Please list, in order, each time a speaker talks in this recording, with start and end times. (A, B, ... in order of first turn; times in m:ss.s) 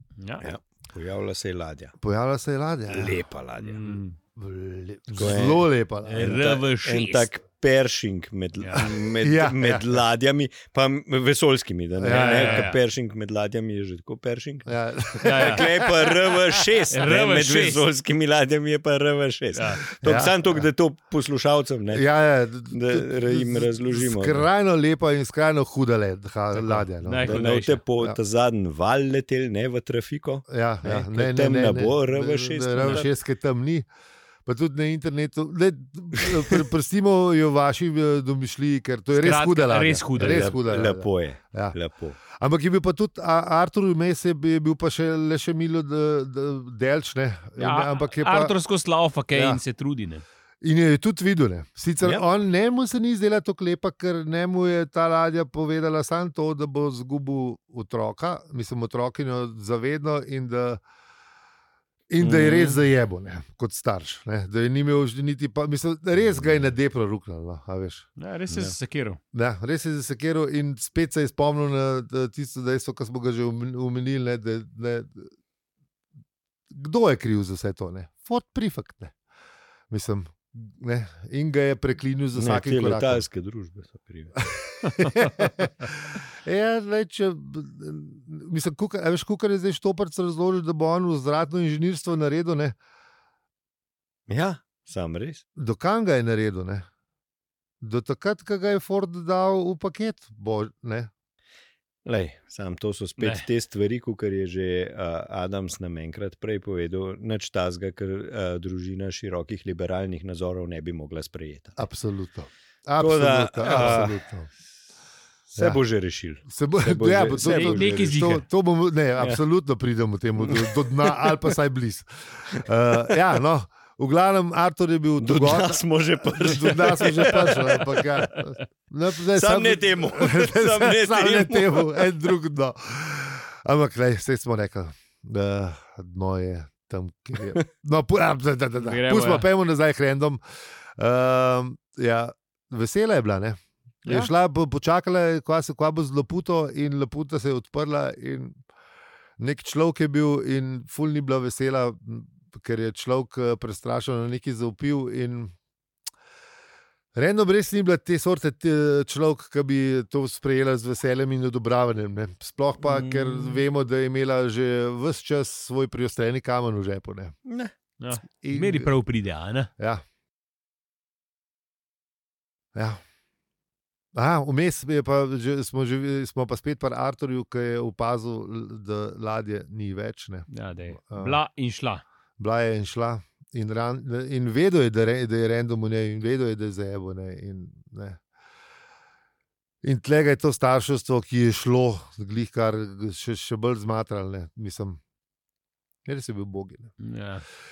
0:00.2-0:00.4 A
0:00.4-0:01.9 B
0:02.0-0:03.2 C
0:02.9-0:04.0 B
0:03.6-0:04.2 A
0:04.4-0:06.4 C
0:05.2-0:22.0 B
0:06.0-0:07.3 A
0:08.6-0:08.9 A
0:08.8-0:10.0 C
0:12.0-0:12.7 C
0:12.1-0:12.8 A
0:14.6-0:16.9 C
0:15.2-0:15.6 A
0:16.9-0:17.8 A
0:19.5-0:19.8 A
0:20.0-0:20.6 C
0:21.9-0:27.4 C
0:22.7-0:24.4 B
0:26.5-0:27.8 A
0:27.2-0:33.1 B
0:30.5-0:33.8 C
0:34.4-0:41.8 C
0:36.2-0:36.6 B
0:39.1-0:40.5 A
0:40.2-0:42.2 B
0:42.3-0:48.5 C
0:47.6-0:50.2 A
0:49.3-0:49.6 C
0:50.6-1:00.8 C
1:02.1-1:08.1 C
1:02.2-1:02.8 B
1:08.2-1:09.2 A
1:08.5-1:08.7 B
1:09.3-1:15.3 C
1:16.7-1:19.1 C
1:19.9-1:23.2 C
1:22.3-1:24.4 B
1:24.4-1:32.8 C
1:24.8-1:25.3 A
1:34.3-1:35.4 B
1:35.6-1:36.9 C
1:37.8-1:41.1 C
1:42.0-1:51.9 B
1:43.2-1:43.4 A
1:51.8-1:54.5 C
1:53.0-1:54.2 B
1:55.5-1:58.2 B
1:56.5-2:20.4 C
1:57.4-1:58.4 A
2:00.4-2:01.5 B
2:02.5-2:03.1 B
2:05.2-2:08.3 B
2:09.3-2:12.1 B
2:18.8-2:19.5 A
2:21.0-2:28.6 C
2:24.0-2:24.3 A
2:29.4-2:35.5 C
2:37.1-2:47.3 C
2:42.8-2:43.6 B
2:47.4-2:47.7 B
2:48.0-2:49.7 A
2:48.3-2:48.9 C
2:49.8-2:50.0 C
2:52.7-2:53.0 C
2:54.1-3:01.4 C
3:00.5-3:02.0 A
3:02.4-3:08.2 C
3:09.8-3:15.0 C
3:16.0-3:16.9 C
3:17.0-3:17.4 A